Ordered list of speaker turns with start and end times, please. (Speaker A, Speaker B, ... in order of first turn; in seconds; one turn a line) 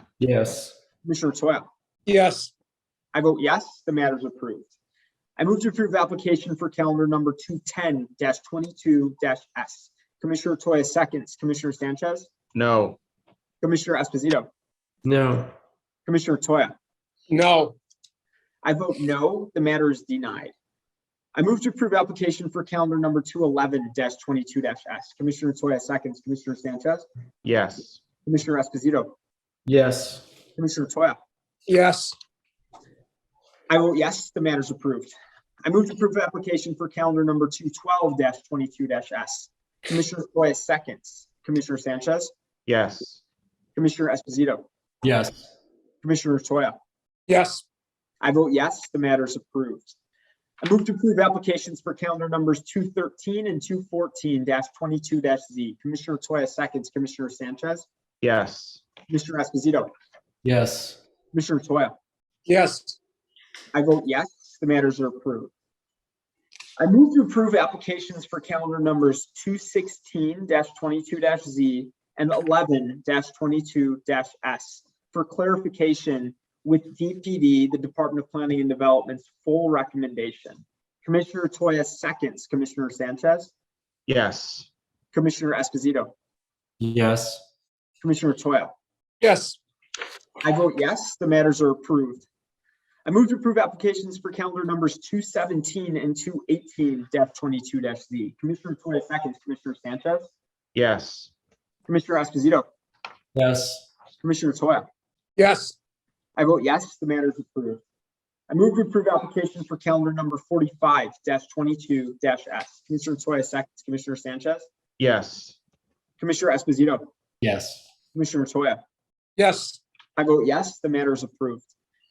Speaker A: 0.2-0.7
Speaker B: 1.0-1.7
Speaker C: 2.1-2.5
Speaker B: 3.1-4.7
Speaker B: 5.4-12.3
Speaker D: 12.5-13.0
Speaker B: 13.6-14.5
Speaker A: 15.0-15.5
Speaker B: 16.1-16.7
Speaker C: 17.3-17.8
Speaker B: 18.6-20.5
Speaker B: 21.3-27.1
Speaker D: 27.4-28.0
Speaker B: 28.2-29.1
Speaker A: 29.6-30.2
Speaker B: 30.6-31.2
Speaker C: 31.7-32.1
Speaker B: 33.7-42.3
Speaker D: 42.6-43.2
Speaker B: 43.8-44.6
Speaker A: 45.0-45.4
Speaker B: 46.0-46.8
Speaker C: 47.3-47.6
Speaker B: 48.2-49.9
Speaker B: 50.6-57.9
Speaker D: 58.2-58.8
Speaker B: 59.1-59.9
Speaker A: 60.4-61.0
Speaker B: 61.3-62.0
Speaker C: 62.5-63.0
Speaker B: 63.7-65.5
Speaker B: 66.8-83.5
Speaker D: 84.1-84.7
Speaker B: 85.1-86.1
Speaker A: 86.8-87.4
Speaker B: 88.0-88.7
Speaker C: 89.2-89.6
Speaker B: 90.4-92.3
Speaker B: 93.0-100.3
Speaker D: 100.7-101.3
Speaker B: 101.9-102.7
Speaker A: 103.3-103.8
Speaker B: 104.2-104.9
Speaker C: 105.4-105.7
Speaker B: 106.4-107.8
Speaker B: 108.5-114.7
Speaker D: 115.0-115.6
Speaker B: 116.2-117.1
Speaker A: 117.4-117.8
Speaker B: 118.1-118.8
Speaker C: 119.4-119.8
Speaker B: 120.2-121.7